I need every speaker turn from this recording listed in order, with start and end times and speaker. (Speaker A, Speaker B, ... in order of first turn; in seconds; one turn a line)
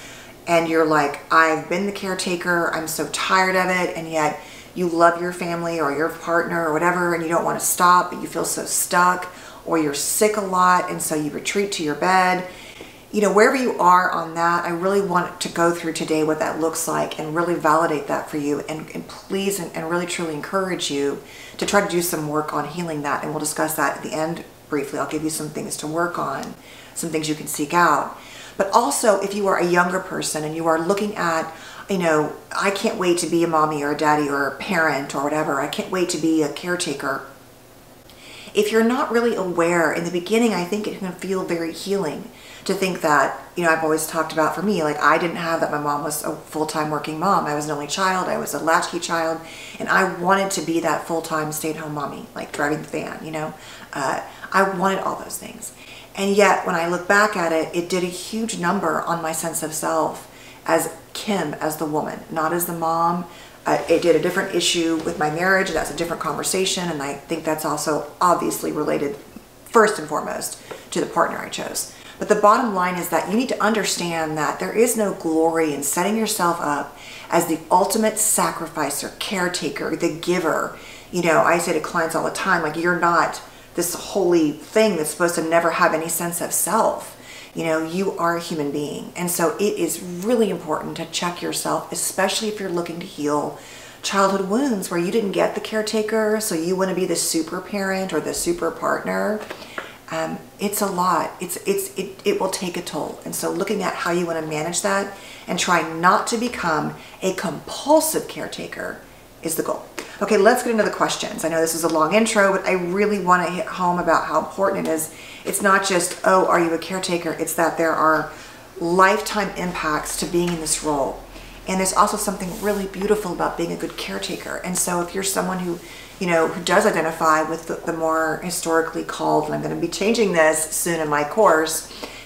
Speaker A: 0.5-12.5
Speaker A: 13.1-37.2
Speaker A: 38.5-99.4
Speaker A: 100.1-131.9